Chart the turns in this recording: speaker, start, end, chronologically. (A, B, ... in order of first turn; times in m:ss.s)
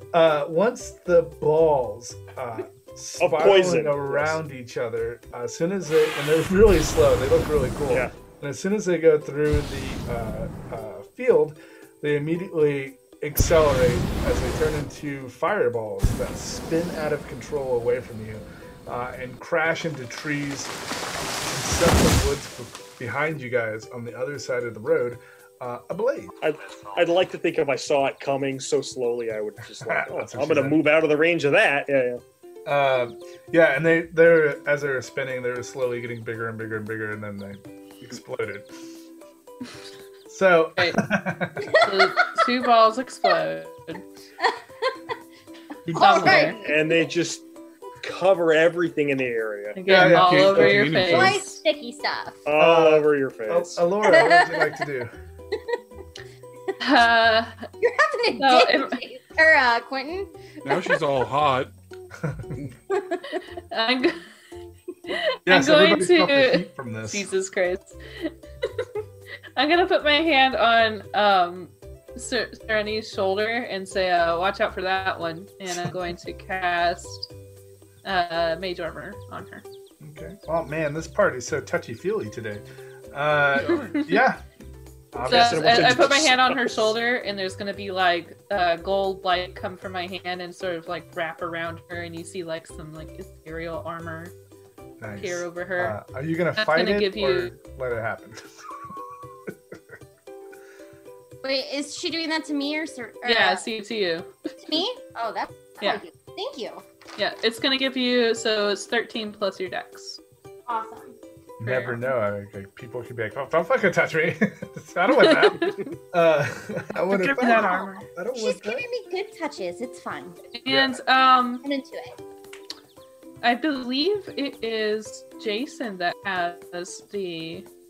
0:00.1-0:20.7 A
0:03.2-0:04.4 B
0:21.4-0:26.3 A
0:26.4-0:32.2 B
0:29.8-0:30.8 A
0:32.7-0:38.7 A
0:40.3-0:41.8 A
0:41.7-0:44.0 C
0:45.9-0:46.5 D
0:45.9-0:47.1 E
0:45.9-0:46.6 C
0:46.6-0:47.4 B
0:48.0-0:49.9 B
0:49.8-0:51.6 C
0:49.9-0:50.9 A
0:49.9-0:51.4 D
0:51.0-0:52.4 E
0:52.5-0:53.9 B
0:52.6-0:55.1 A
0:54.0-0:54.8 E
0:56.8-0:57.6 C
0:57.8-1:01.0 E
0:58.4-0:59.0 C
1:00.6-1:01.7 D
1:02.2-1:02.6 A
1:02.9-1:03.4 E
1:03.7-1:04.2 C
1:05.1-1:08.3 C
1:05.5-1:07.3 A
1:09.6-1:17.3 C
1:18.0-1:19.6 C
1:20.0-1:24.4 A
1:23.6-1:24.0 D
1:25.1-1:26.3 A
1:25.2-1:26.9 B
1:25.2-1:34.3 C
1:35.0-1:38.4 A
1:35.2-1:36.0 C
1:36.6-1:37.5 C
1:41.4-1:43.6 E
1:43.2-1:44.8 C
1:44.7-1:46.8 E
1:47.2-1:50.2 C
1:50.7-1:51.2 E
1:51.6-1:58.8 A
1:51.6-1:52.0 C
1:55.2-1:55.8 C
1:57.1-1:58.1 C
1:57.4-1:57.8 E
1:58.4-2:00.4 E
2:00.5-2:01.6 C
2:00.7-2:01.0 A
2:01.6-2:02.2 E
2:03.4-2:07.7 C